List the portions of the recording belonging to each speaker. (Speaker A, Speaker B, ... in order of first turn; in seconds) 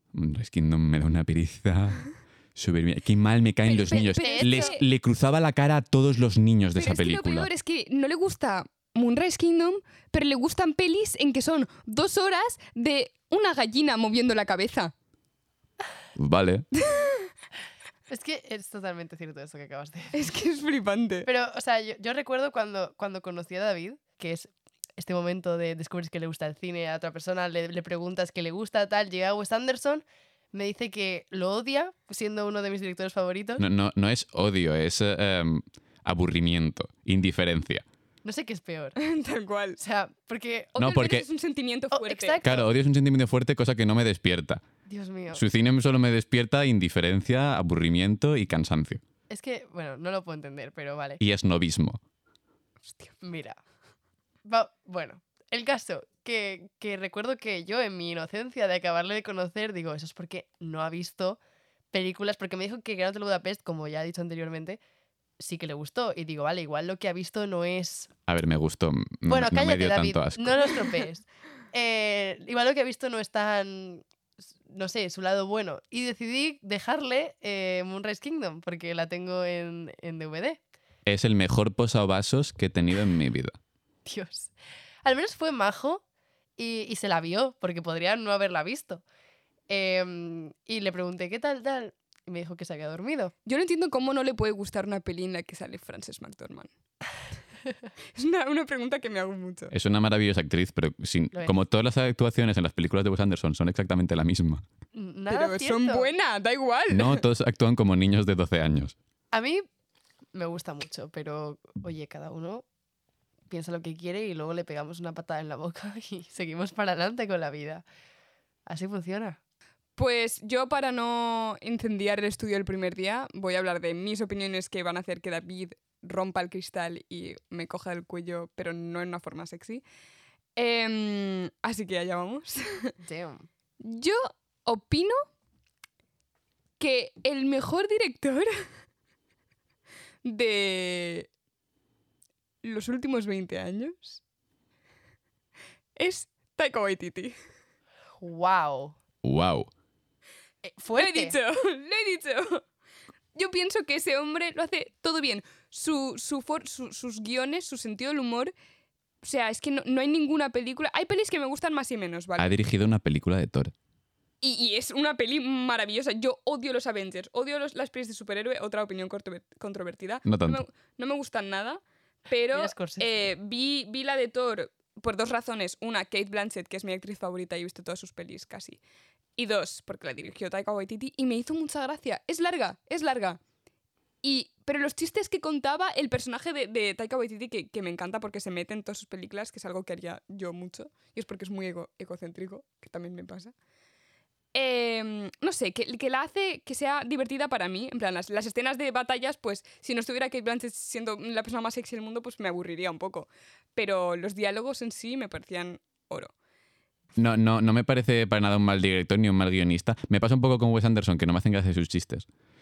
Speaker A: 0.1-7.5, 16.2-16.7, 33.6-37.9, 40.8-41.2, 42.4-44.6, 45.3-49.0, 51.2-52.0, 68.3-70.8, 81.1-83.6, 99.7-104.6, 106.9-109.0, 149.2-149.7, 162.4-163.7, 170.3-170.6, 207.2-212.3
Speaker B: 3.7-4.8, 6.8-14.9, 16.8-17.3, 20.1-21.3, 39.0-39.8, 40.8-42.4, 93.5-96.7, 98.1-99.7, 105.3-107.2, 120.0-129.8, 130.6-132.9, 133.8-135.2, 136.8-138.5, 140.2-141.3, 142.6-144.2, 146.0-147.4, 151.0-152.6, 153.3-158.5, 159.2-162.5, 164.4-178.8, 179.4-183.4, 184.2-193.5, 194.5-206.3
Speaker C: 3.9-4.8, 18.1-20.3, 21.3-33.6, 38.2-39.0, 39.8-40.8, 41.9-42.7, 44.9-45.4, 49.3-51.2, 53.2-53.6, 54.5-61.4, 61.9-64.8, 65.4-68.1, 69.3-74.0, 74.7-80.6, 84.1-84.5, 85.0-86.0, 86.6-89.0, 89.7-93.3, 104.9-106.1, 109.3-109.7, 110.3-112.6, 113.5-117.8, 118.7-119.4, 133.0-133.5, 148.2-149.0, 150.6-151.3, 172.5-173.2